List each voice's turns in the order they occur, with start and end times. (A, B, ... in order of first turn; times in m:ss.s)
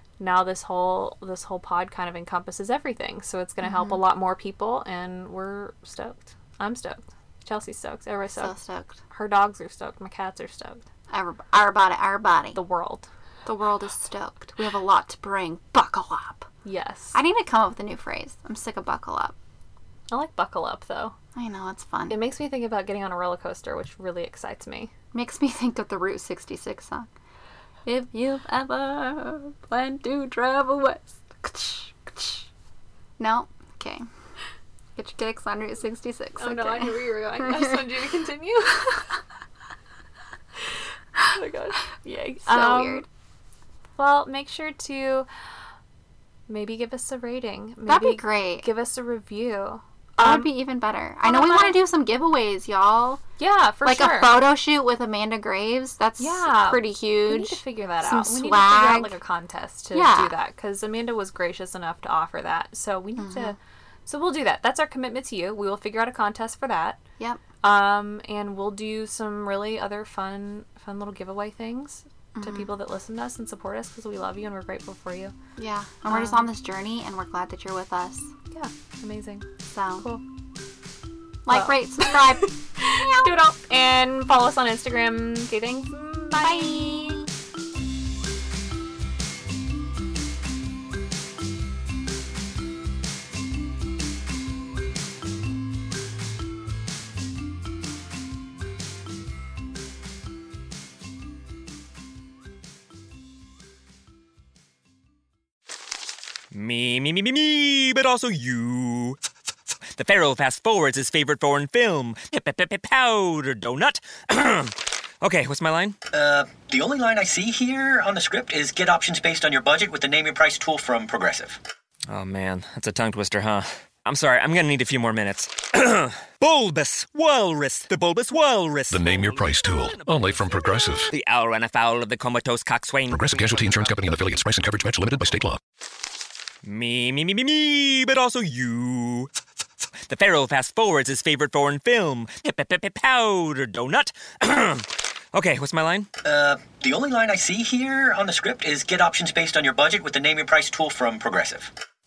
0:00.2-0:08.5 A
0:03.6-0:04.0 B
0:08.3-0:09.0 B
0:09.1-0:10.8 A
0:11.1-0:12.6 B
0:12.5-0:13.1 A
0:13.4-0:16.5 B
0:16.6-0:17.2 A
0:17.1-0:19.3 B
0:20.1-0:21.1 A
0:21.3-0:22.1 B
0:22.1-0:24.9 A
0:25.1-0:27.1 B
0:27.8-0:32.4 B
0:33.2-0:34.0 B
0:35.0-0:37.8 B
0:36.4-0:39.1 A
0:41.3-0:43.0 A
0:42.4-0:43.0 B
0:44.0-0:45.3 A
0:46.5-0:50.5 A
0:47.8-0:48.6 B
0:50.2-0:53.2 B
0:51.2-0:51.8 A
0:53.4-0:54.4 A
0:53.8-0:59.2 B
0:56.2-1:07.0 A
0:59.9-1:00.3 B
1:03.2-1:03.5 B
1:07.6-1:15.3 A
1:12.3-1:12.7 B
1:15.6-1:18.3 B
1:16.1-1:16.5 A
1:18.5-1:19.4 A
1:19.7-1:20.0 B
1:21.4-1:23.3 B
1:21.5-1:27.2 A
1:26.4-1:27.3 B
1:46.5-1:49.2 C
1:49.9-1:56.0 C
1:56.1-2:01.6 D
2:02.1-2:14.1 C
2:08.9-2:11.1 E
2:13.1-2:15.6 E
2:16.6-2:19.3 C
2:20.1-2:26.1 C
2:26.2-2:31.7 D